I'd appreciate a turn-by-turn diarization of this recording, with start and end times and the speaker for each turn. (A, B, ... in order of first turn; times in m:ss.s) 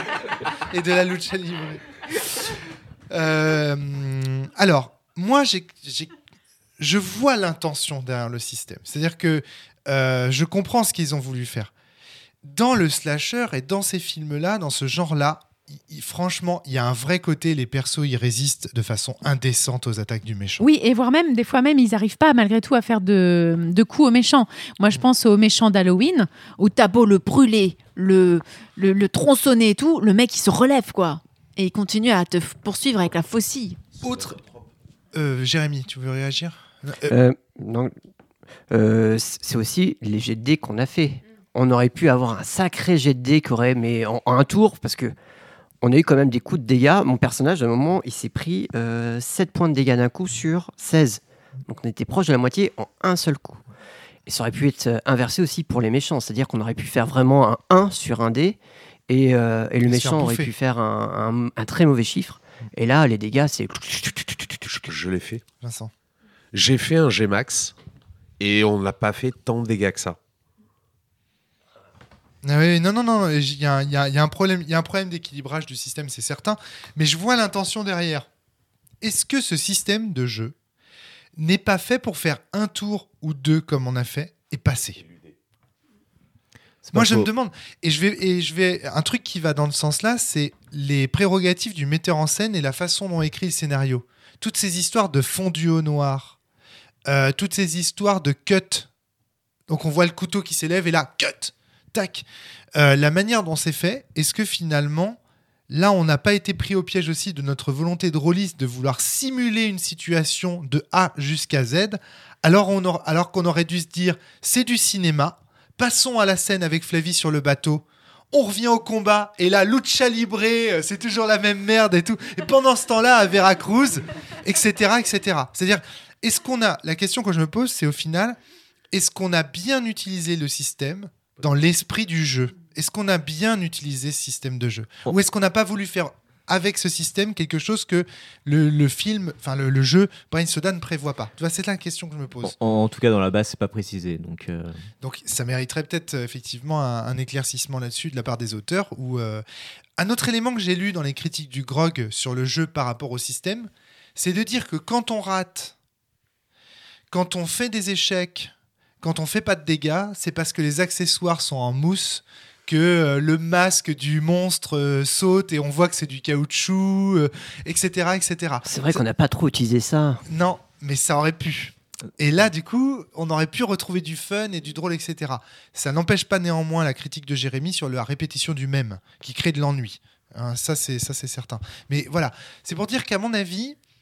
0:00.6-0:02.6 A
0:03.1-0:06.1 A
0:06.8-0:11.7 A
0:12.4-0:20.7 A
0:20.6-0:33.8 B
0:34.0-0:34.4 A
0:35.1-0:37.2 A
0:37.1-0:37.9 C
0:38.7-0:45.1 C
0:45.8-0:53.6 C
0:54.3-0:58.6 C
0:59.1-1:04.9 C
0:59.8-1:00.5 A
1:04.9-1:05.4 D
1:05.6-1:05.9 A
1:06.5-1:07.7 D
1:08.4-1:10.2 D
1:12.4-1:18.3 A
1:19.0-1:20.6 A
1:21.4-1:25.0 A
1:26.8-1:27.3 E
1:26.9-1:36.4 A
1:37.1-1:38.9 A
1:39.7-1:45.2 A
1:45.7-2:08.4 A
2:08.9-2:22.6 A
2:22.4-2:24.8 E
2:25.0-2:29.4 A
2:30.0-2:35.8 A
2:37.1-2:49.0 A
2:48.7-2:50.2 C
2:50.3-3:03.8 A